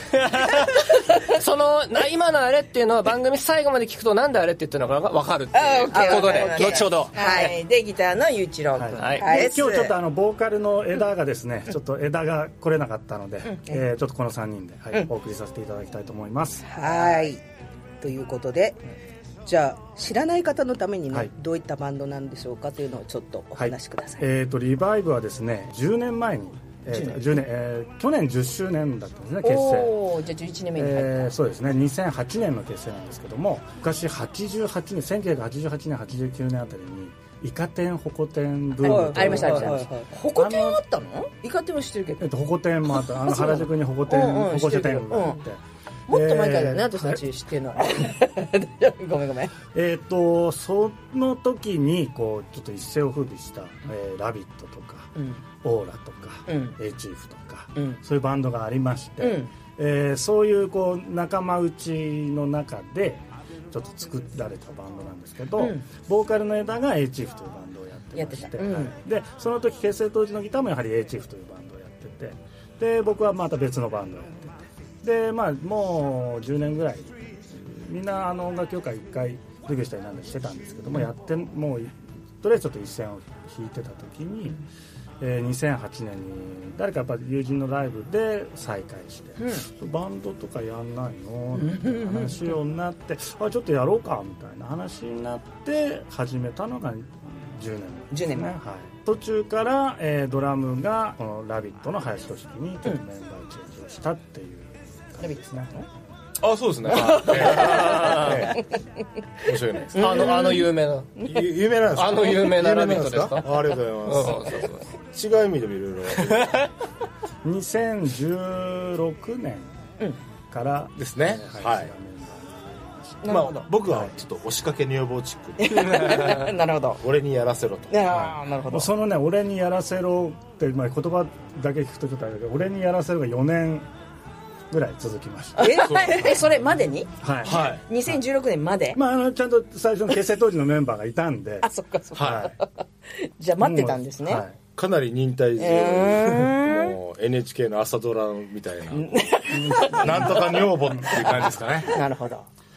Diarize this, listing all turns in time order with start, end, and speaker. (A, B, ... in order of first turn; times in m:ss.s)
0:00.1-0:07.1 A
0:05.5-0:09.9 B
0:05.6-0:07.6 C
0:08.8-0:16.6 D
0:09.0-0:09.2 A
0:09.2-0:09.7 C
0:16.6-0:17.4 C
0:16.8-0:17.3 B
0:18.0-0:18.8 C
0:19.4-0:24.2 C
0:23.6-0:30.0 D
0:26.9-0:27.4 B
0:29.4-0:31.3 B
0:30.8-0:40.8 D
0:38.8-0:42.3 B
0:38.8-0:40.0 C
0:42.2-0:47.2 D
0:42.9-0:45.4 B
0:46.1-0:49.6 B
0:49.7-0:55.1 D
0:55.2-0:55.4 B
0:55.6-1:24.6 D
0:56.5-0:56.8 B
0:59.2-0:59.5 B
1:05.6-1:05.8 B
1:08.1-1:08.9 B
1:25.2-1:45.7 D
1:29.4-1:29.6 B
1:31.5-1:32.5 B
1:38.1-1:38.5 B
1:45.2-1:45.8 B
1:46.4-1:48.7 E
1:47.5-1:48.5 A
1:49.4-1:50.5 E
1:50.0-1:51.1 A
1:50.0-1:50.6 B
1:51.2-1:56.5 E
1:51.9-1:53.5 A
1:54.0-1:54.8 A
1:57.4-1:59.7 D
2:00.5-2:04.1 D
2:01.0-2:01.9 E
2:03.2-2:03.7 B
2:03.2-2:08.3 E
2:05.6-2:07.0 B
2:07.9-2:08.9 B
2:08.7-2:13.9 D
2:14.7-2:16.0 D
2:15.6-2:19.0 B
2:15.7-2:16.3 E
2:17.2-2:17.7 D
2:17.4-2:17.8 E
2:18.9-2:21.7 D
2:21.6-2:22.7 B
2:22.2-2:22.4 E
2:22.2-2:22.5 D
2:23.2-2:24.4 B
2:23.6-2:24.5 D
2:24.7-2:29.1 E
2:25.6-2:27.0 B
2:28.9-2:31.3 B
2:29.5-2:31.4 D
2:29.8-2:32.0 E
2:31.9-2:32.4 B